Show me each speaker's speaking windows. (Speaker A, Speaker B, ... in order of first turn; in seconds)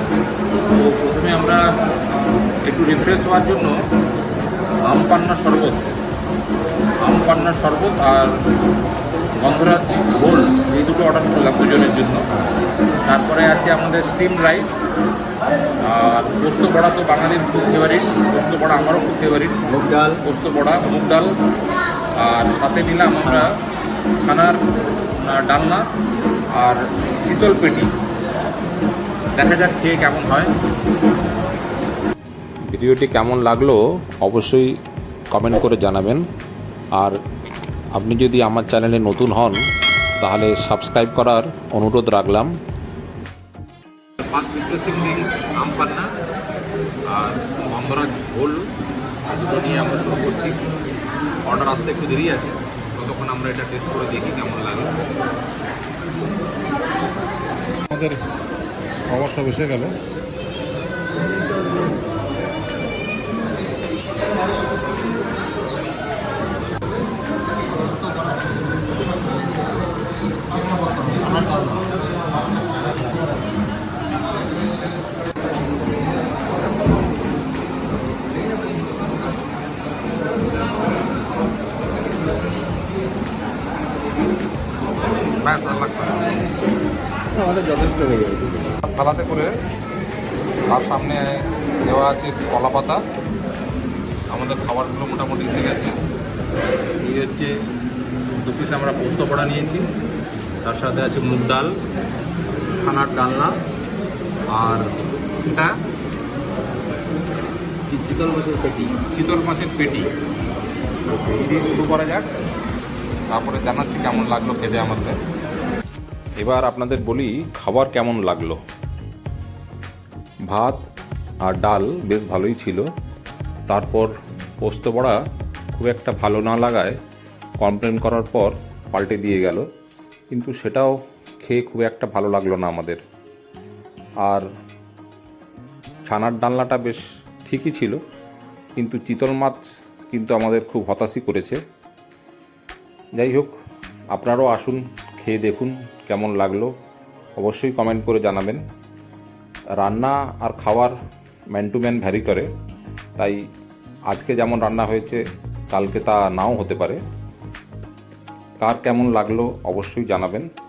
Speaker A: 0.7-1.7, 2.7-3.8, 4.9-6.0, 7.0-8.4, 9.4-12.3, 13.1-14.8, 15.8-21.3, 22.2-23.5, 24.2-24.6, 25.1-25.9, 26.6-27.9, 29.4-30.5, 32.7-34.7, 35.3-36.2, 37.9-39.7, 40.2-42.6, 44.2-46.1, 47.1-48.7, 49.3-50.6, 51.4-55.0, 57.9-58.2, 59.1-60.0, 85.4-86.3, 88.9-89.5, 90.7-93.0, 94.3-96.0, 97.0-97.5, 98.3-99.9, 100.6-101.8, 102.8-103.5, 104.5-105.8, 109.0-110.1, 111.2-112.3, 113.3-115.2, 116.4-118.6, 120.5-120.8, 121.4-122.9, 123.7-125.2, 125.7-127.0, 127.6-129.7, 130.3-133.0, 136.1-138.0, 138.8-141.6, 143.2-143.6, 144.1-146.7, 147.4-148.6, 149.8-151.0, 151.5-152.5, 153.2-153.4, 154.1-157.0, 158.6-160.5
Speaker B: 19.7-20.2, 87.4-88.6, 107.9-109.0